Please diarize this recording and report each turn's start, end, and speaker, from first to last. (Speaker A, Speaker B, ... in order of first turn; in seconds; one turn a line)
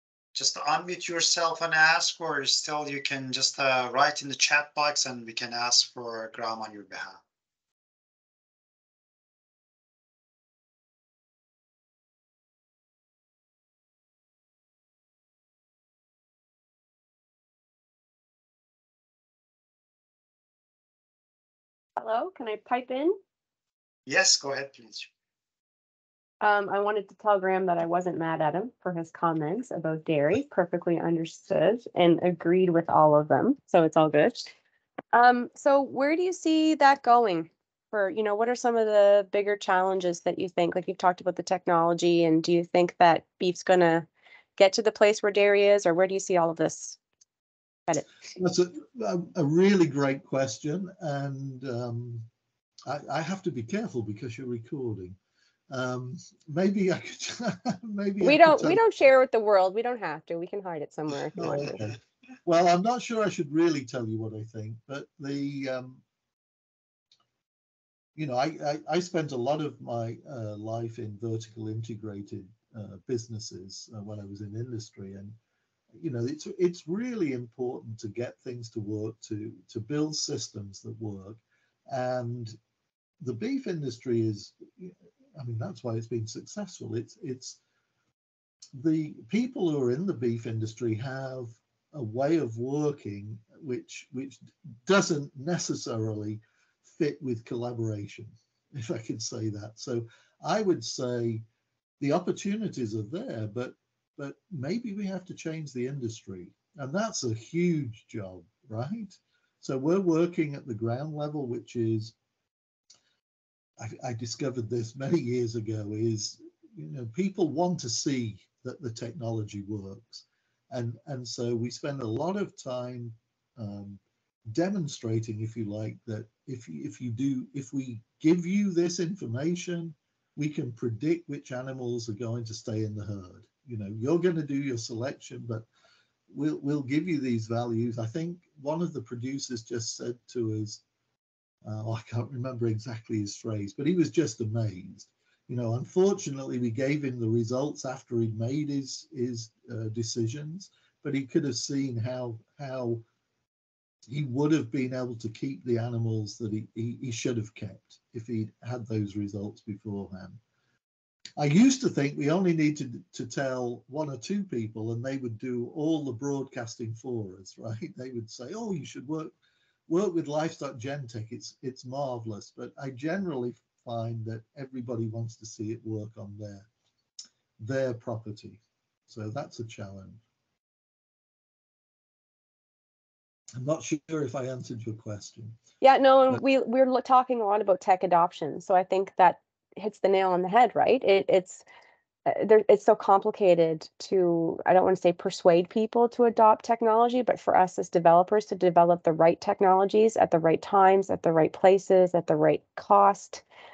Speaker A: 0.3-7.2
Speaker B: 22.0-23.2
Speaker A: 24.1-25.1
Speaker B: 26.4-34.5
Speaker B: 35.1-47.0
Speaker C: 48.4-52.3
Speaker C: 52.9-55.2
Speaker C: 55.7-58.8
Speaker B: 58.2-61.8
Speaker C: 61.4-66.0
Speaker C: 68.2-75.4
Speaker C: 75.9-82.6
Speaker C: 83.2-87.6
Speaker C: 88.8-101.5
Speaker C: 102.0-112.2
Speaker C: 113.8-135.7
Speaker C: 136.3-140.8
Speaker C: 141.6-153.1
Speaker C: 154.1-160.4
Speaker C: 161.4-169.3
Speaker C: 169.9-176.7
Speaker C: 177.6-180.2
Speaker C: 183.6-185.6
Speaker B: 185.8-191.6
Speaker B: 192.3-203.4